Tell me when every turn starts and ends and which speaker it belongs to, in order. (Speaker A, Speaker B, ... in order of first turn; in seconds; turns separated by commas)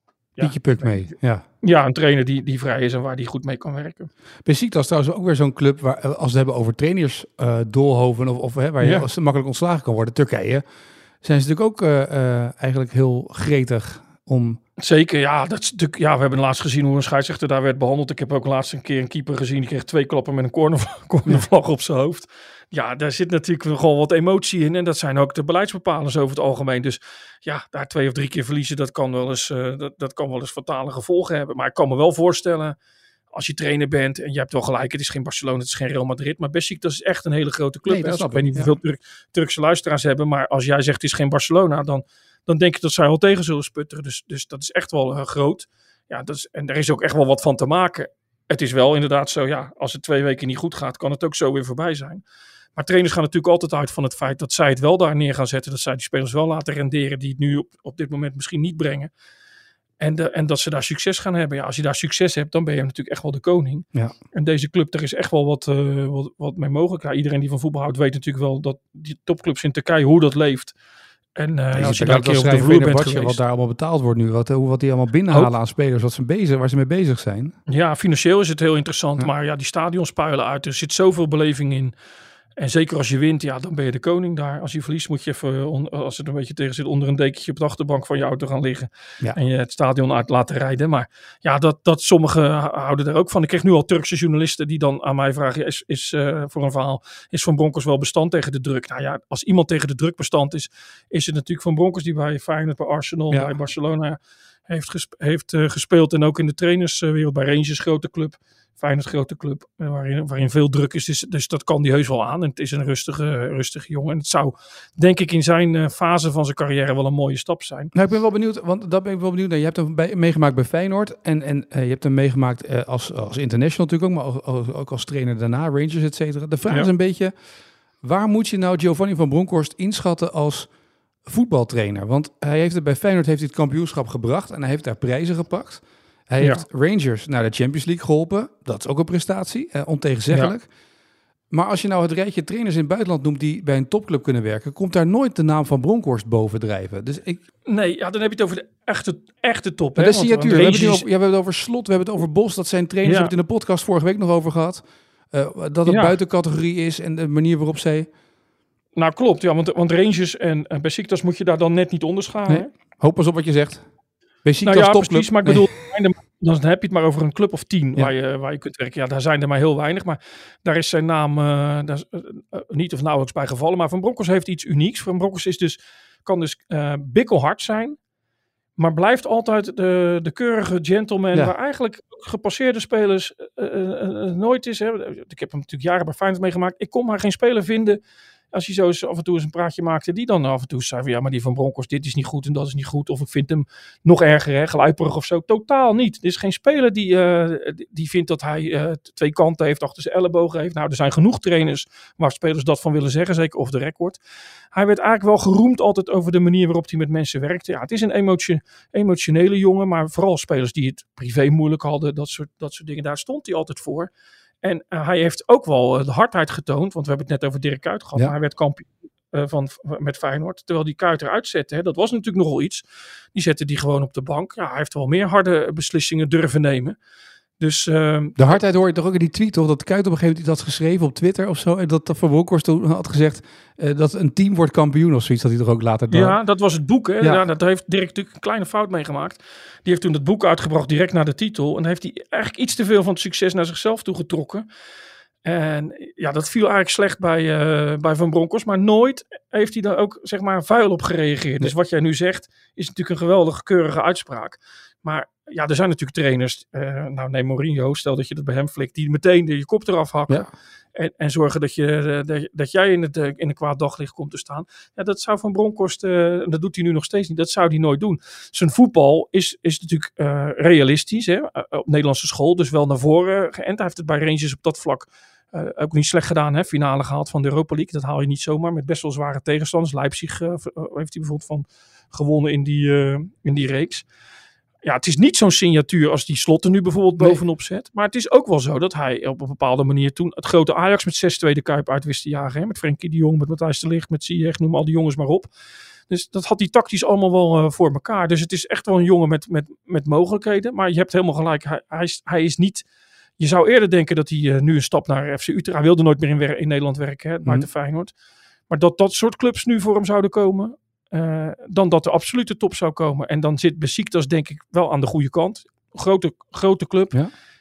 Speaker A: 0.4-4.1, Speaker B: 0.4-1.4, Speaker B: 4.5-10.6, Speaker A: 8.8-9.1, Speaker B: 11.2-14.6, Speaker A: 14.8-32.8, Speaker A: 33.3-52.2, Speaker B: 37.9-38.7, Speaker A: 52.8-59.1, Speaker A: 60.0-70.7, Speaker A: 71.4-73.4, Speaker B: 71.7-77.5, Speaker A: 77.7-81.9, Speaker A: 82.6-117.9, Speaker B: 117.9-127.3, Speaker B: 128.0-130.7, Speaker B: 131.2-140.7, Speaker B: 141.5-147.4, Speaker A: 147.7-151.1, Speaker B: 150.0-158.1, Speaker A: 153.0-153.3, Speaker A: 155.9-156.2, Speaker A: 159.0-162.7, Speaker B: 162.5-163.9, Speaker B: 164.4-165.7, Speaker A: 164.6-178.0, Speaker A: 178.8-188.0, Speaker A: 188.5-204.2, Speaker A: 204.7-214.1, Speaker A: 214.6-227.0, Speaker A: 227.6-228.6, Speaker B: 228.4-236.4, Speaker A: 236.1-244.7, Speaker A: 245.4-284.1, Speaker A: 284.8-295.5, Speaker A: 296.1-302.9, Speaker A: 303.4-308.1, Speaker A: 308.7-317.1